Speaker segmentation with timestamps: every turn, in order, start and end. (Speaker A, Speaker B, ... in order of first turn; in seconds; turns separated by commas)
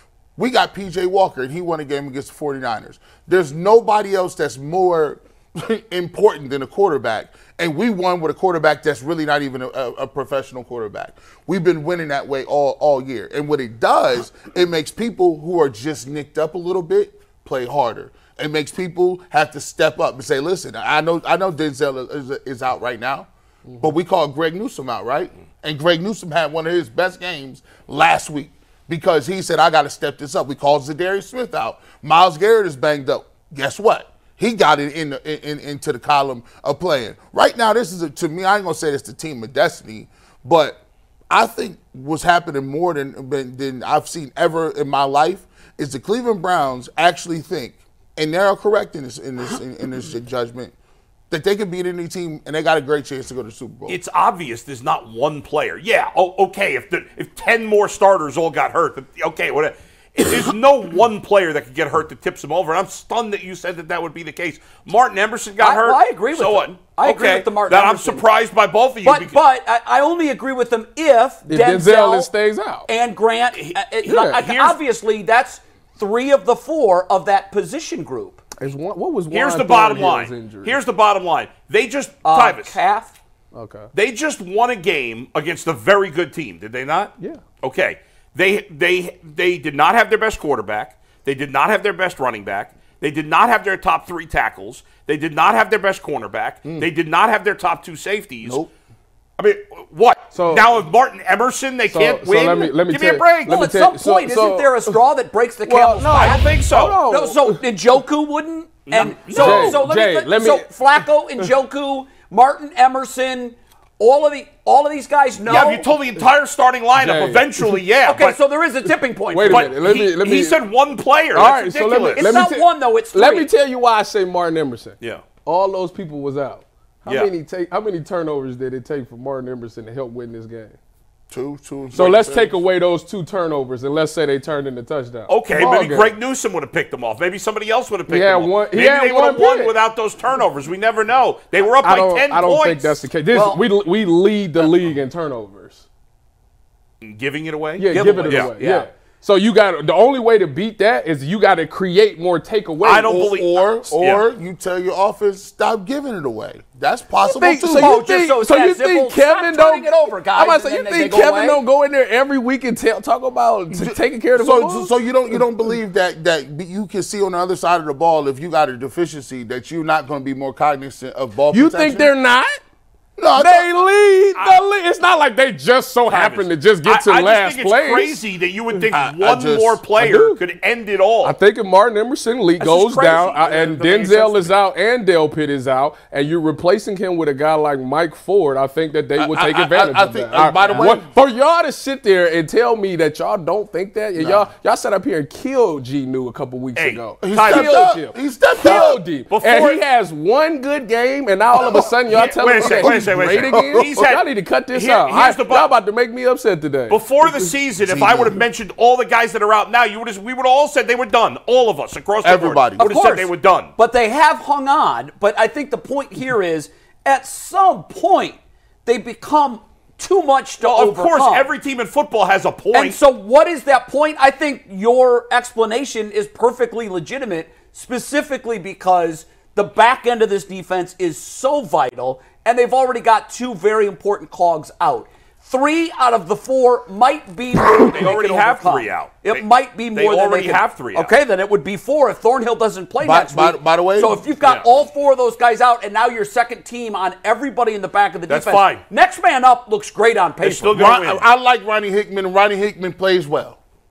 Speaker A: 0.4-23.3, Speaker A: 23.8-50.7, Speaker A: 51.3-54.0, Speaker B: 53.9-69.4, Speaker C: 65.6-68.3, Speaker C: 69.0-72.3, Speaker D: 71.5-72.9, Speaker C: 72.9-78.4, Speaker D: 74.0-74.4, Speaker B: 74.3-74.8, Speaker D: 78.6-80.8, Speaker B: 79.3-82.8, Speaker C: 82.2-83.2, Speaker D: 83.5-83.9, Speaker B: 83.9-98.6, Speaker A: 98.4-98.7, Speaker B: 99.4-103.6, Speaker D: 100.3-100.7, Speaker D: 101.9-105.0, Speaker C: 103.5-115.9, Speaker D: 105.6-107.7, Speaker B: 106.0-107.0, Speaker B: 108.9-109.6, Speaker D: 109.2-111.5, Speaker B: 115.5-118.4, Speaker D: 116.0-116.3, Speaker D: 116.9-117.8, Speaker C: 118.0-119.8, Speaker D: 119.3-120.7, Speaker B: 119.5-122.5, Speaker D: 121.3-130.8, Speaker C: 121.4-123.5, Speaker B: 125.0-125.3, Speaker B: 127.1-127.3, Speaker A: 131.3-132.6, Speaker D: 131.9-136.2, Speaker B: 135.3-143.0, Speaker D: 138.1-139.8, Speaker D: 141.8-145.9, Speaker C: 143.3-143.7, Speaker C: 144.6-144.9, Speaker B: 147.0-148.5, Speaker D: 147.8-153.2, Speaker C: 147.9-148.9, Speaker B: 152.8-154.2, Speaker A: 153.1-158.0, Speaker D: 157.2-165.5, Speaker C: 157.6-161.6, Speaker A: 163.7-172.1, Speaker D: 171.5-172.6, Speaker A: 173.2-173.7, Speaker D: 173.3-178.2, Speaker B: 176.1-181.4, Speaker A: 178.9-179.8, Speaker D: 180.0-180.4, Speaker D: 181.2-207.3, Speaker C: 182.6-184.4, Speaker A: 189.2-191.1, Speaker A: 194.2-194.5, Speaker B: 196.8-197.7, Speaker A: 197.2-199.0, Speaker B: 198.7-199.8, Speaker A: 201.5-201.9, Speaker B: 202.1-205.8, Speaker A: 202.6-203.9, Speaker B: 206.9-213.7, Speaker A: 207.8-208.4, Speaker A: 212.2-212.9, Speaker C: 212.8-221.5, Speaker B: 220.6-223.0, Speaker C: 222.7-250.8, Speaker B: 237.8-241.2, Speaker A: 243.0-244.2, Speaker B: 244.4-244.7, Speaker B: 248.3-248.8, Speaker B: 250.4-251.3, Speaker A: 250.8-253.6